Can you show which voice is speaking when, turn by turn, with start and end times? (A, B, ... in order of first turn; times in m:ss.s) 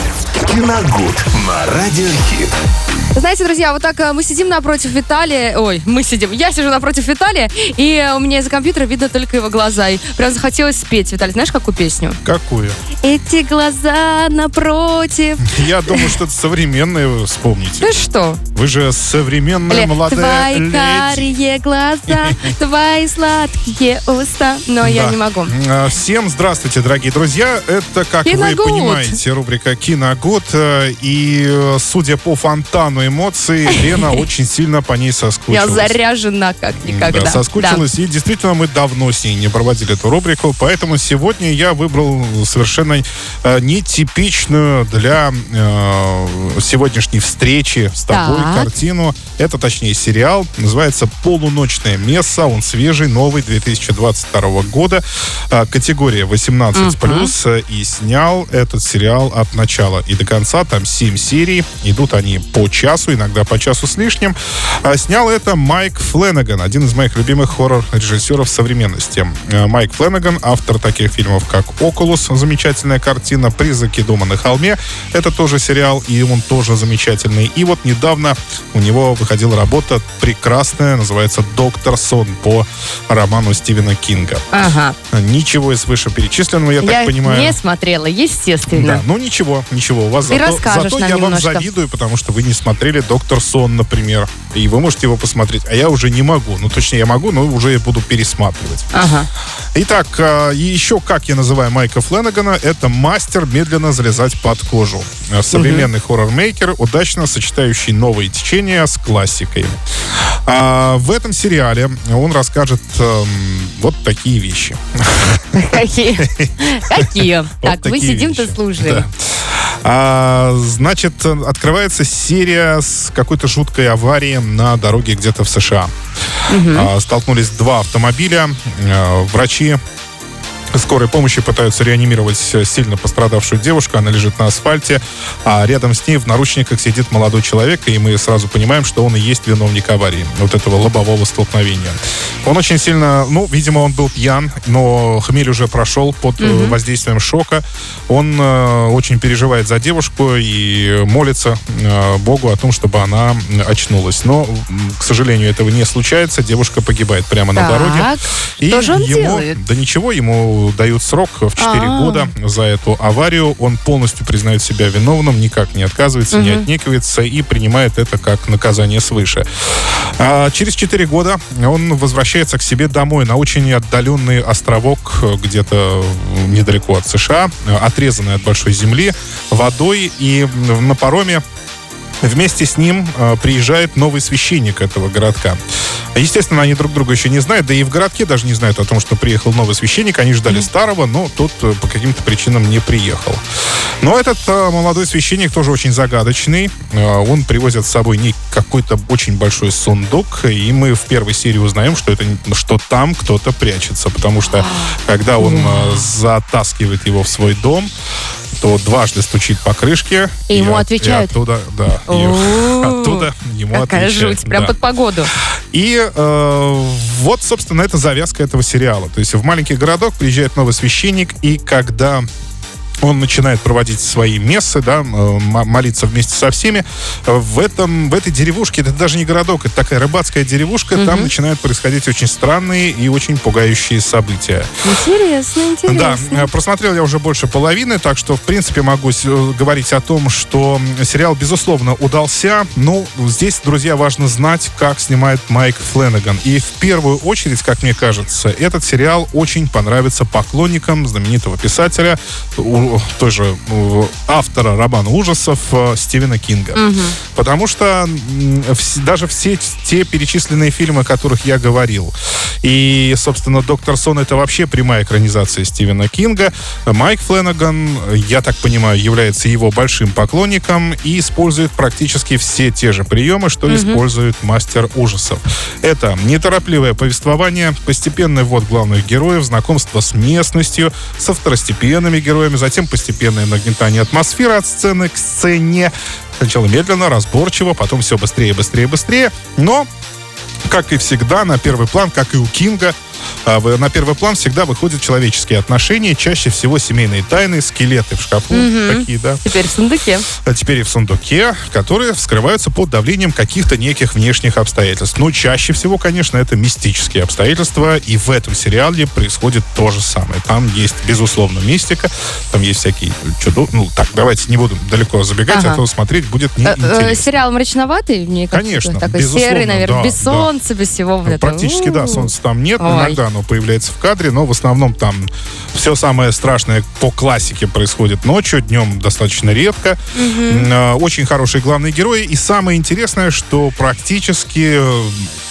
0:00.4-0:02.5 A
0:03.2-0:12.2 B
0:12.2-0:12.8 C
0:13.0-0:16.2 B
0:15.4-0:17.9 C
0:17.8-0:18.4 B
0:18.5-0:21.3 C
0:19.7-0:25.5 B
0:22.1-0:22.5 C
0:24.8-0:36.0 C
0:28.2-0:29.2 B
0:33.7-0:34.2 B
0:35.5-0:37.8 B
0:36.8-1:24.4 C
0:48.1-0:48.7 B
0:56.8-0:57.3 B
1:24.5-1:25.0 B
1:25.1-1:27.6 C
1:26.8-1:29.0 B
1:28.7-1:38.9 C
1:30.3-1:31.7 B
1:38.9-1:39.3 B
1:39.8-2:05.9 C
1:45.5-1:45.9 B
1:55.5-1:59.0 B
2:06.5-2:06.9 B
2:06.7-2:09.8 C
2:10.7-2:38.1 C
2:26.4-2:26.8 B
2:37.6-2:39.6 B
2:38.6-3:01.4 C
2:41.6-2:42.3 B
2:46.3-2:46.7 B
3:02.2-3:05.6 C
3:06.2-3:13.4 C
3:14.0-3:27.9 C
3:24.5-3:26.1 B
3:28.6-3:34.8 C
3:30.5-3:31.3 B
3:32.1-3:35.3 B
3:35.7-3:42.2 C
3:43.0-3:54.7 C
3:51.0-3:51.3 B
3:54.8-3:56.5 B
3:55.9-4:49.9 C
4:16.8-4:17.2 B
4:33.7-4:34.0 B
4:50.7-4:53.0 C
4:53.5-4:59.4 C
4:58.5-5:00.3 B
5:00.4-5:17.3 C
5:15.5-5:15.8 B
5:16.6-5:23.2 B
5:18.5-5:20.5 C
5:21.2-5:35.3 C
5:30.2-5:30.7 B